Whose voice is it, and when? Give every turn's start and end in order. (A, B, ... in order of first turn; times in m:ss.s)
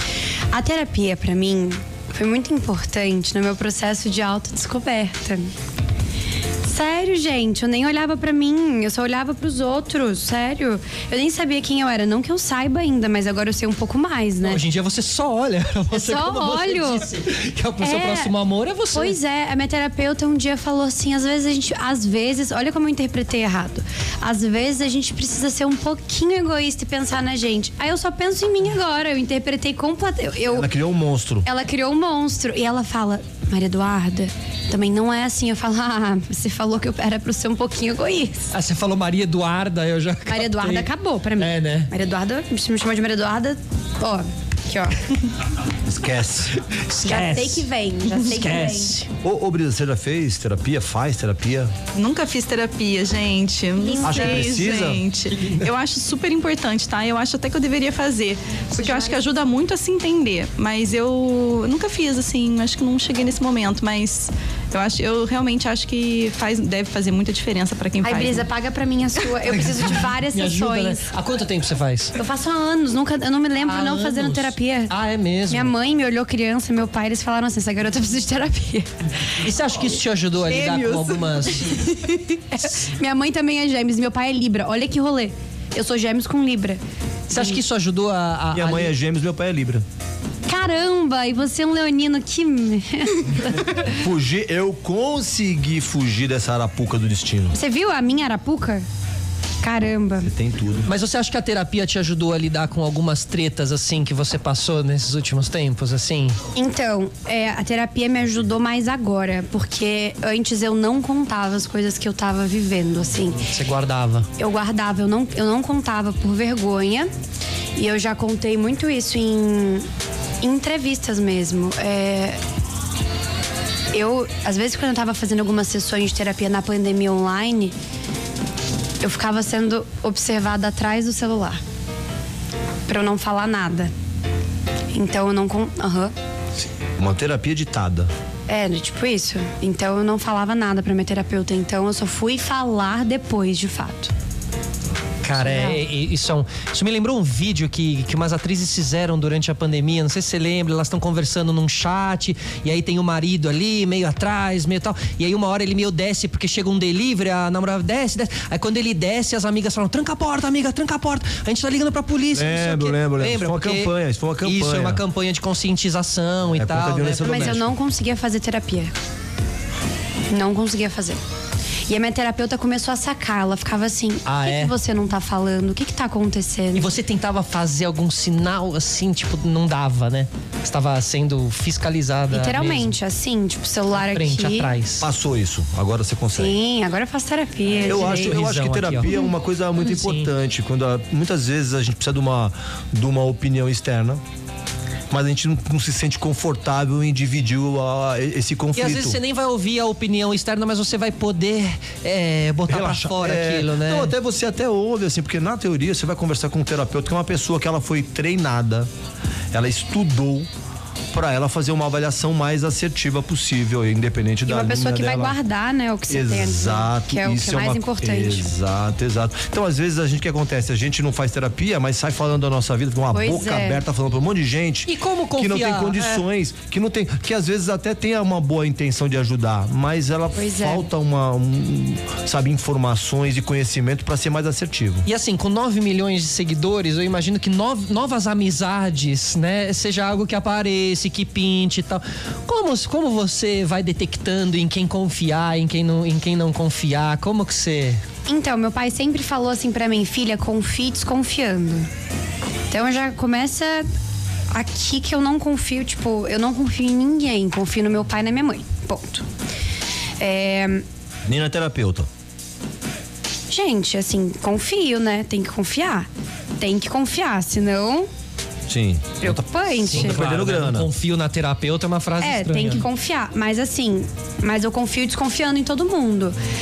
0:00.5-0:05.5 A
0:06.6-0:14.6 A
0:14.4-0:19.2 B
0:15.9-0:17.1 A
0:17.8-0:18.3 A
0:18.9-0:30.7 A
0:30.5-0:31.4 C
0:31.4-0:38.5 A
0:38.5-0:41.9 B
0:40.3-0:45.1 A
0:45.8-0:46.6 C
0:46.6-0:49.1 B
0:47.0-0:49.0 A
0:49.2-0:51.7 C
0:51.9-1:08.5 D
0:53.8-0:54.4 A
0:54.0-0:55.0 C
0:58.7-0:59.3 A
1:08.0-1:11.1 A
1:09.5-1:12.2 B
1:12.2-1:14.9 A
1:13.6-1:15.7 B
1:15.5-1:18.9 A
1:19.4-1:21.9 B
1:20.4-1:22.2 D
1:22.5-1:27.6 A
1:27.3-1:28.9 B
1:28.5-1:29.8 C
1:30.5-1:33.8 A
1:33.8-1:37.6 C
1:37.5-1:38.9 A
1:39.6-1:40.3 A
1:40.2-1:40.9 C
1:40.9-1:46.4 B
1:46.6-1:53.4 A
1:53.5-1:54.3 B
1:54.4-1:57.1 A
1:57.8-1:59.9 A
2:00.4-2:02.4 A
2:03.9-2:07.7 A
2:09.0-2:11.6 A
2:12.9-2:13.9 A
2:14.9-2:16.1 A
2:16.6-2:18.1 C
2:18.5-2:24.1 A
2:25.2-2:47.6 B
2:25.4-2:25.8 A
2:42.3-2:45.0 C
2:46.5-2:47.7 C
2:47.2-2:48.9 A
2:50.3-2:51.2 A
2:51.9-2:56.9 A
2:54.3-2:54.7 B
2:56.7-3:03.0 B
3:02.3-3:04.7 A
3:04.1-3:05.1 B
3:05.0-3:06.6 C
3:06.3-3:08.4 A
3:07.8-3:09.1 B
3:07.8-3:14.2 C
3:09.8-3:10.3 B
3:15.1-3:19.2 C
3:18.7-3:24.1 B
3:22.7-3:28.9 C
3:29.5-3:30.5 C
3:31.1-3:35.4 C
3:34.4-3:38.5 A
3:36.1-3:55.1 C
3:43.1-3:43.8 A
3:44.9-3:46.2 B
3:50.4-3:50.9 A
3:55.1-4:08.0 B
4:08.3-4:11.9 A
4:12.7-4:13.9 A
4:14.5-4:19.2 A
4:20.2-4:20.8 A
4:21.3-4:22.1 C
4:23.5-4:26.1 A
4:26.6-4:28.1 A
4:28.7-4:30.9 C
4:29.2-4:30.2 A
4:29.9-4:32.9 B
4:32.2-4:36.4 A